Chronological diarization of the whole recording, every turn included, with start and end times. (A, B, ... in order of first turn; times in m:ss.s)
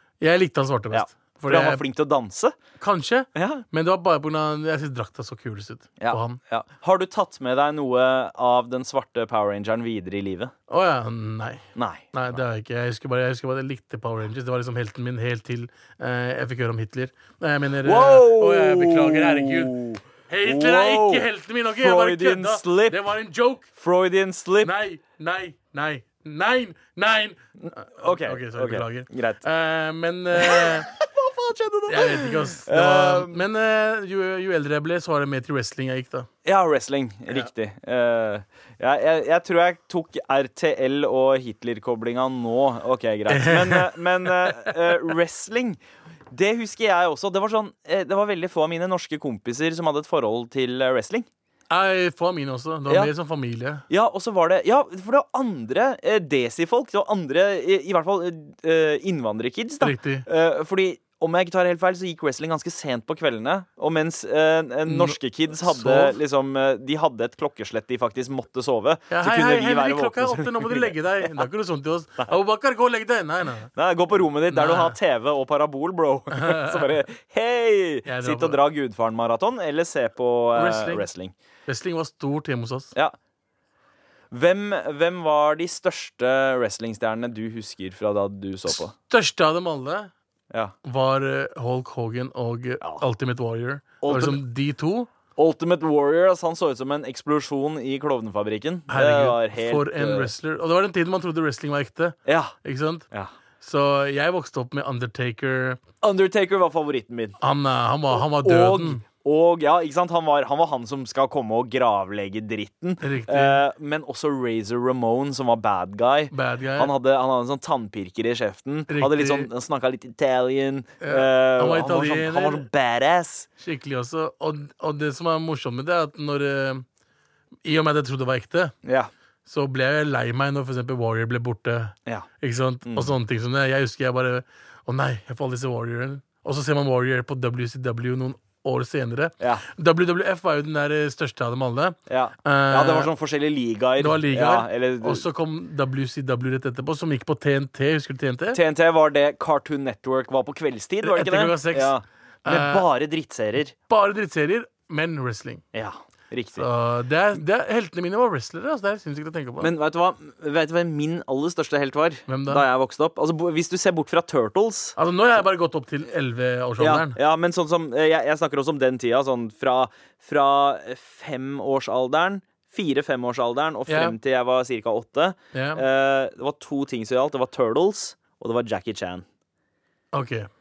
0:00.2-0:01.8 A
0:00.9-0:02.5 B
0:02.8-0:06.4 A
0:03.3-0:03.6 B
0:06.0-0:10.5 B
0:10.7-0:19.8 A
0:11.7-0:12.1 B
0:17.8-0:23.1 B
0:20.3-0:23.7 A
0:23.7-0:24.7 B
0:24.6-0:30.9 A
0:27.6-0:29.4 B
0:30.4-0:33.4 B
0:31.9-0:36.3 A
0:36.4-0:45.8 B
0:43.3-0:44.7 A
0:46.3-0:51.3 B
0:51.7-0:53.8 A
0:53.9-1:11.3 B
0:59.8-1:00.2 A
1:04.9-1:06.2 A
1:09.1-1:13.7 A
1:13.7-1:21.3 B
1:14.5-1:15.0 A
1:16.3-1:16.8 A
1:18.0-1:18.6 A
1:20.5-1:21.0 A
1:21.7-1:22.9 A
1:24.3-1:28.9 B
1:28.7-1:30.1 A
1:30.8-1:35.1 A
1:34.0-1:34.4 B
1:35.3-1:40.3 B
1:38.9-1:43.1 A
1:42.2-1:42.5 B
1:43.6-1:45.8 A
1:46.0-1:47.4 B
1:47.4-1:49.0 A
1:48.1-2:03.5 B
1:53.0-1:53.6 A
1:56.3-1:56.9 A
1:58.9-1:59.5 A
2:01.0-2:02.6 A
2:03.6-2:06.8 A
2:07.6-2:08.7 A
2:08.8-2:09.1 B
2:09.4-2:23.1 A
2:12.8-2:13.1 B
2:19.4-2:19.6 B
2:22.1-2:25.2 B
2:24.0-2:28.6 A
2:28.5-2:33.7 B
2:31.0-2:32.8 A
2:33.9-2:35.6 A
2:35.7-2:36.7 B
2:36.6-2:39.7 A
2:39.6-2:45.0 B
2:42.3-2:42.6 A
2:45.0-2:47.2 A
2:46.8-2:59.2 B
2:53.9-2:54.2 A
2:55.5-2:55.8 A
3:00.1-3:00.5 A